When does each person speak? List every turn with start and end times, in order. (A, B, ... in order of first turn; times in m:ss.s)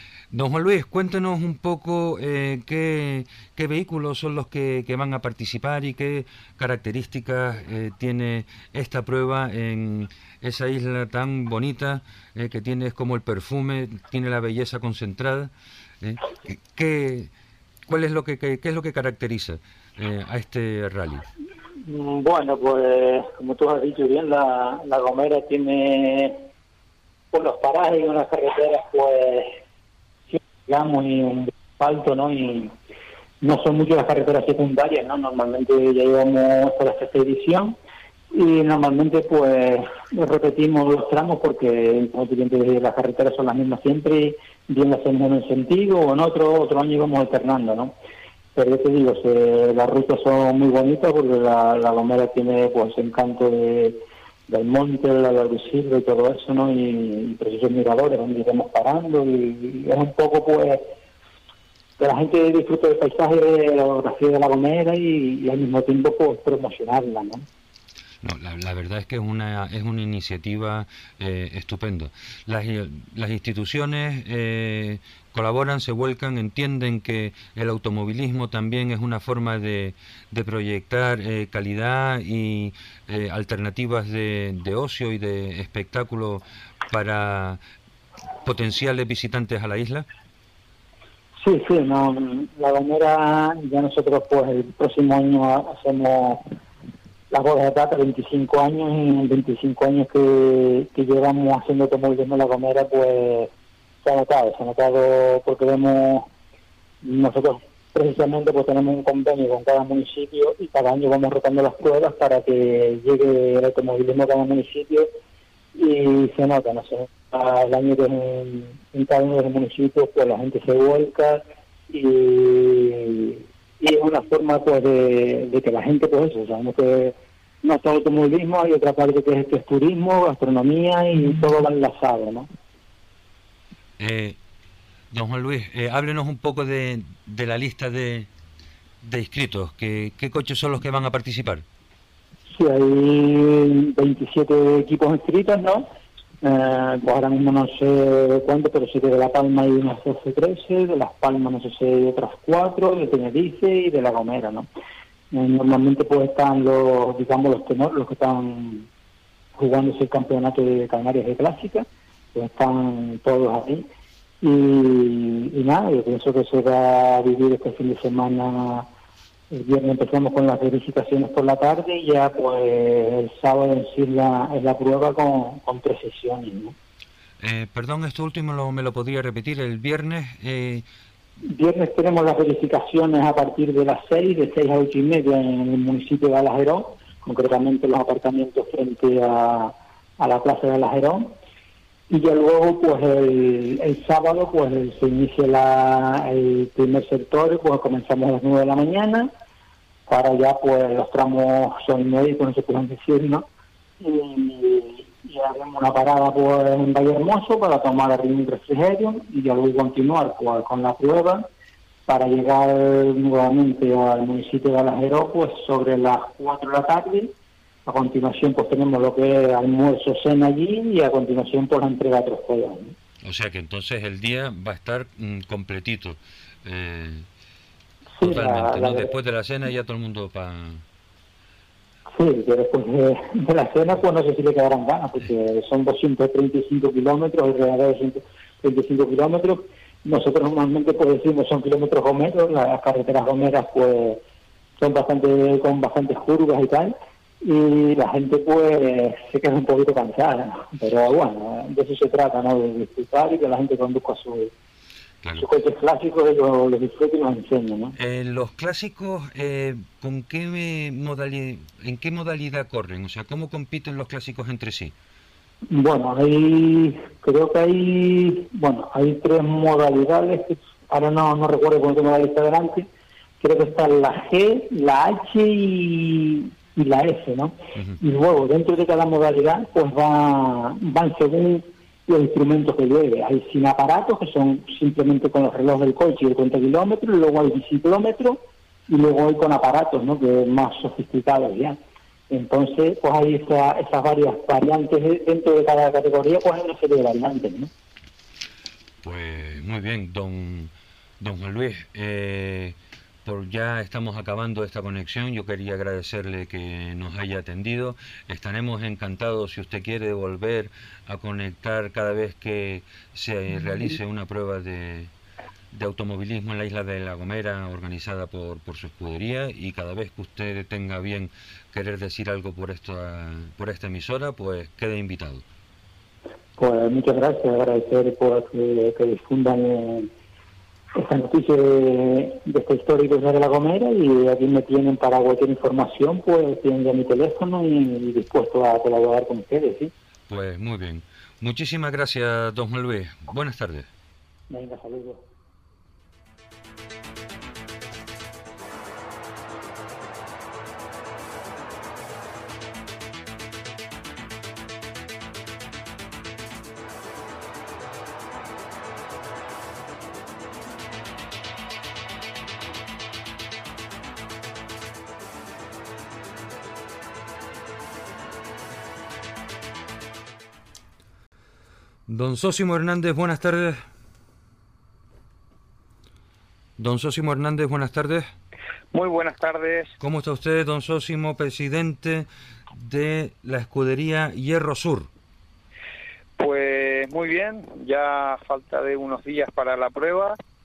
0:00.3-0:17.3 A
0:17.9-0:21.2 A
0:21.8-0:26.4 B
0:27.3-0:29.6 B
0:30.3-0:32.8 B
0:33.4-0:37.8 B
0:38.3-0:47.9 B
0:48.5-1:00.9 B
1:02.0-1:07.4 B
1:08.2-1:27.6 A
1:28.4-1:30.1 A
1:31.4-1:36.5 B
1:37.3-1:43.5 B
1:44.0-1:46.3 B
1:47.0-1:55.1 B
1:55.7-2:12.5 B
2:14.0-2:14.4 A
2:15.1-2:18.3 A
2:19.0-2:21.6 A
2:22.5-2:25.9 B
2:26.4-2:34.7 B
2:35.3-2:38.9 B
2:39.6-2:43.8 B
2:44.4-2:48.9 B
2:49.5-2:56.8 B
2:57.4-3:00.8 A
3:01.5-3:11.3 B
3:12.1-3:19.3 B
3:20.1-3:23.4 B
3:24.0-3:31.5 B
3:32.1-3:37.3 B
3:37.8-3:42.9 B
3:43.2-3:47.3 A
3:48.2-3:49.1 B
3:48.2-3:50.8 A
3:52.1-4:04.2 B
4:04.8-4:14.5 B
4:15.2-4:15.5 A
4:15.4-4:17.9 B
4:18.0-4:24.9 A
4:25.7-4:32.9 B
4:33.4-4:51.8 B
4:52.3-4:57.7 B
4:59.0-5:15.1 A
5:15.7-5:25.4 A
5:26.6-5:30.1 B
5:31.0-5:39.9 B
5:40.3-5:43.9 A
5:44.5-5:45.2 B
6:12.1-6:13.8 A
6:16.8-6:18.3 A
6:18.9-6:19.9 C
6:20.0-6:25.1 A
6:26.4-6:30.4 C